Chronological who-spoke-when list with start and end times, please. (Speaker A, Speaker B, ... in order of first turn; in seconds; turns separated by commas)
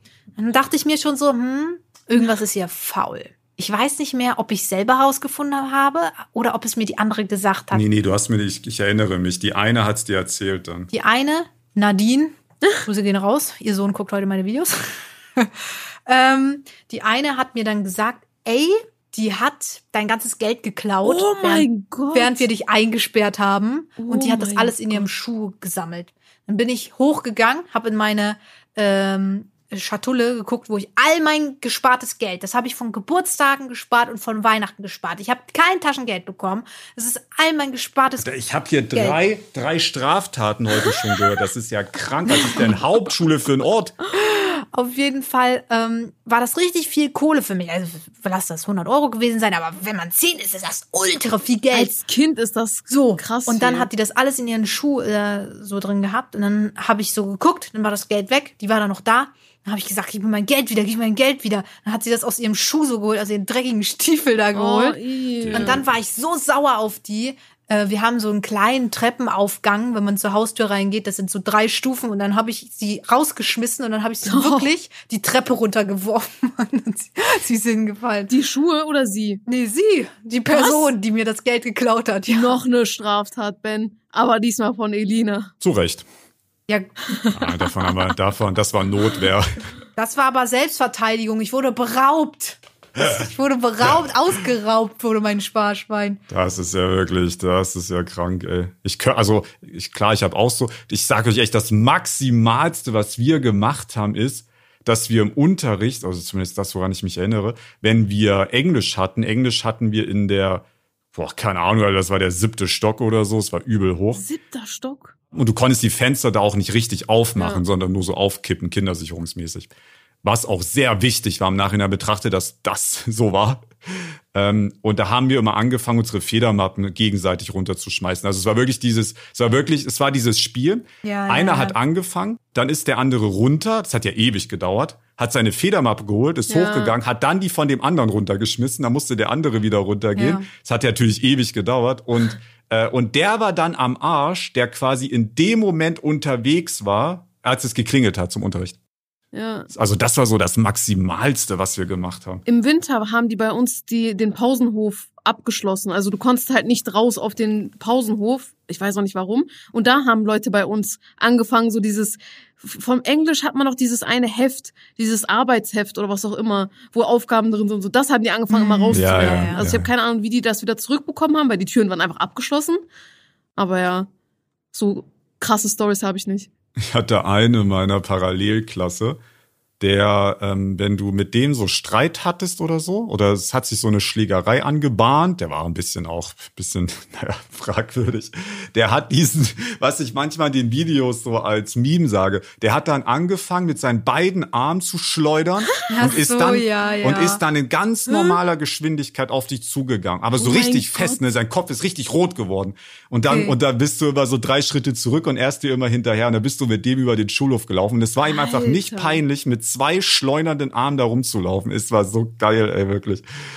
Speaker A: 0.4-7.8, Speaker B: 7.7-10.9, Speaker A: 10.9-38.3, Speaker C: 21.0-22.4, Speaker C: 24.0-25.1, Speaker B: 38.2-43.9, Speaker A: 38.9-39.2, Speaker A: 44.2-51.9, Speaker C: 51.7-53.9, Speaker A: 52.9-65.0, Speaker C: 64.5-65.8, Speaker B: 65.4-65.9, Speaker A: 65.5-78.3, Speaker C: 74.2-74.7, Speaker C: 78.3-79.4, Speaker A: 79.5-82.6, Speaker C: 80.5-80.9, Speaker C: 82.3-85.5, Speaker B: 85.6-86.0, Speaker A: 86.7-87.0, Speaker B: 87.3-89.6, Speaker A: 90.0-96.2, Speaker B: 96.3-114.2, Speaker C: 114.1-115.2, Speaker B: 115.3-119.7, Speaker C: 117.4-117.6, Speaker B: 120.2-148.8, Speaker A: 131.0-131.8, Speaker C: 136.5-137.0, Speaker A: 140.2-140.5, Speaker C: 149.3-149.7, Speaker B: 149.7-152.4, Speaker C: 152.5-172.8, Speaker A: 168.5-169.6, Speaker B: 168.9-169.9, Speaker C: 173.6-174.1, Speaker C: 174.7-176.5, Speaker B: 176.8-179.2, Speaker B: 179.8-213.2, Speaker A: 195.9-197.4, Speaker C: 198.1-198.3, Speaker C: 200.4-201.2, Speaker A: 203.3-203.6, Speaker C: 208.2-209.2